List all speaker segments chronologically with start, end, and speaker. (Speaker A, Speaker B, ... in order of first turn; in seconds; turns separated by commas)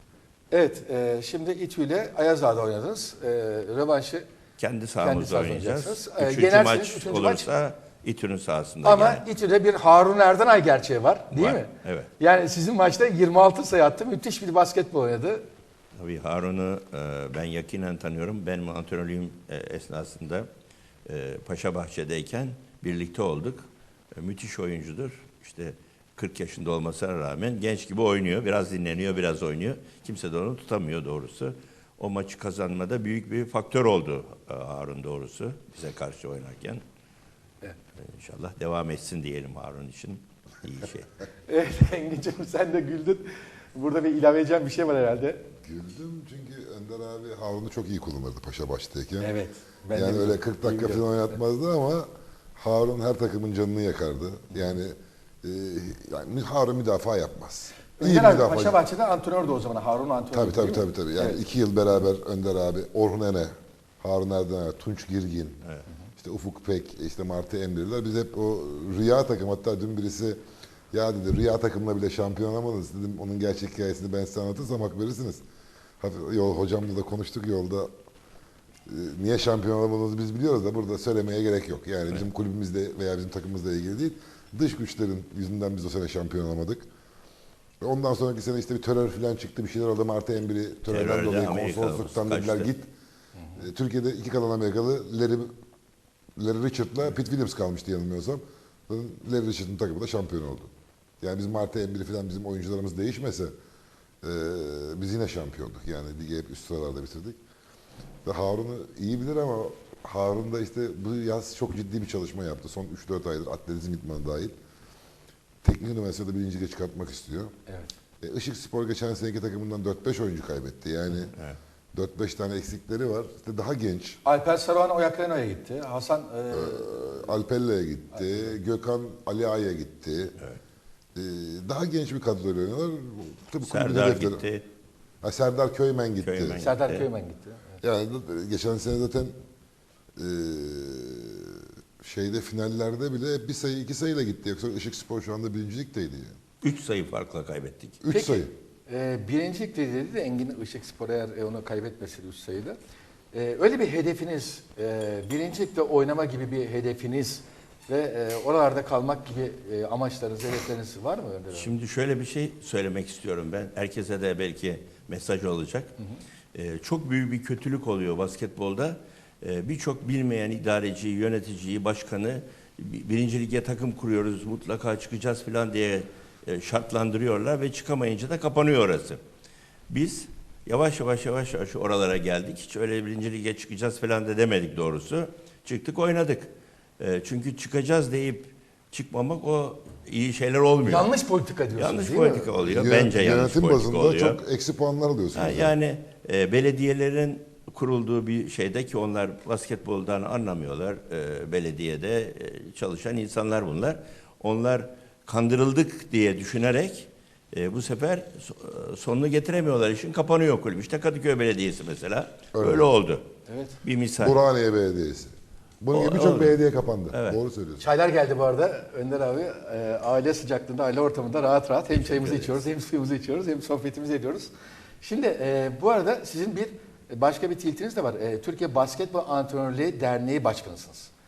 Speaker A: 0.5-4.3, Speaker B: 4.6-9.2, Speaker A: 5.0-7.5, Speaker A: 8.8-15.4, Speaker B: 11.3-12.1, Speaker B: 16.0-20.5, Speaker B: 21.1-36.8, Speaker B: 38.0-41.1, Speaker A: 41.5-45.4, Speaker C: 45.6-49.3, Speaker A: 49.2-51.2, Speaker C: 49.9-58.8, Speaker A: 58.0-61.4, Speaker C: 60.3-65.6, Speaker C: 66.2-70.4, Speaker C: 70.9-75.4, Speaker C: 76.0-77.9, Speaker C: 78.9-86.8, Speaker C: 87.8-92.9, Speaker B: 90.9-92.7, Speaker C: 93.5-95.5, Speaker C: 96.4-103.5, Speaker C: 104.2-107.4, Speaker C: 108.2-114.5, Speaker C: 115.6-117.5, Speaker A: 117.7-117.9, Speaker C: 118.2-121.3, Speaker B: 121.1-121.6, Speaker C: 121.9-124.2, Speaker A: 124.2-127.0, Speaker C: 126.5-130.3, Speaker C: 131.2-134.4, Speaker B: 133.6-134.7, Speaker C: 135.2-136.6, Speaker B: 136.2-137.1, Speaker A: 136.6-137.8, Speaker C: 137.8-139.3, Speaker C: 140.2-146.4, Speaker B: 146.6-148.0, Speaker C: 148.0-148.5, Speaker A: 148.1-152.8, Speaker A: 153.3-161.7, Speaker B: 161.5-165.9, Speaker B: 166.5-179.2, Speaker B: 179.9-191.1, Speaker A: 190.8-192.5, Speaker B: 191.8-194.4, Speaker C: 192.6-195.7, Speaker B: 195.3-213.3, Speaker C: 212.6-212.9, Speaker A: 213.5-213.8, Speaker B: 213.8-214.4, Speaker C: 214.2-217.8, Speaker B: 215.9-217.4, Speaker A: 217.8-224.5, Speaker B: 221.9-222.6, Speaker A: 225.0-231.1